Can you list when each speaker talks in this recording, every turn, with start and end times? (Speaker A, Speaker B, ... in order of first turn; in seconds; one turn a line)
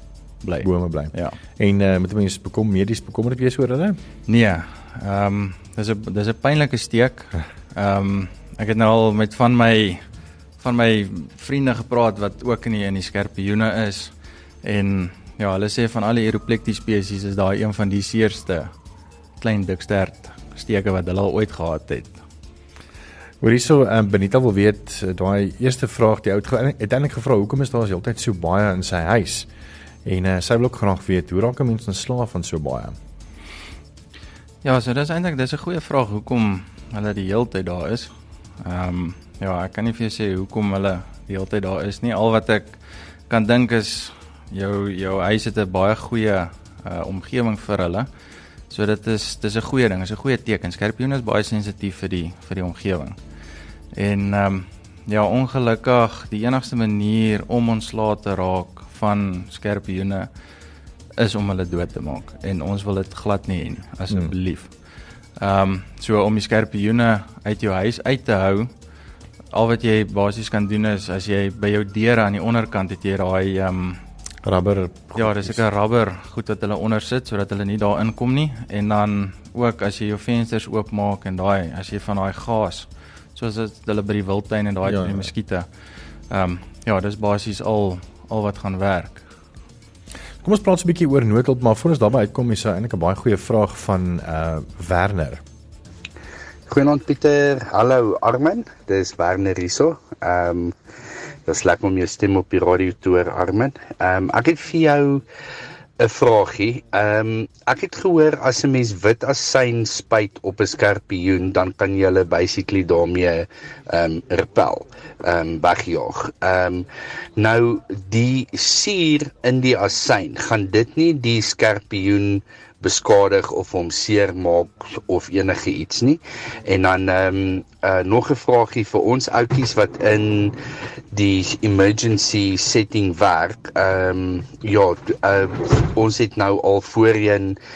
Speaker A: 0.4-1.4
Speaker B: 0.6-4.0
Speaker A: 4.3-10.0
Speaker A: 10.6-18.7
Speaker A: 19.4-22.2
Speaker B: 23.4-29.5
Speaker B: 30.0-33.0
Speaker A: 34.6-42.8
Speaker A: 43.3-48.1
Speaker A: 48.7-53.2
Speaker A: 53.9-60.3
Speaker A: 61.2-64.7
Speaker A: 65.4-68.7
Speaker A: 69.5-74.0
Speaker B: 74.4-75.6
Speaker A: 75.2-85.7
Speaker B: 84.8-85.3
Speaker A: 86.3-89.2
Speaker B: 90.4-95.4
Speaker C: 96.7-100.7
Speaker C: 101.5-105.2
Speaker C: 106.0-116.8
Speaker C: 117.4-130.5
Speaker C: 131.1-137.6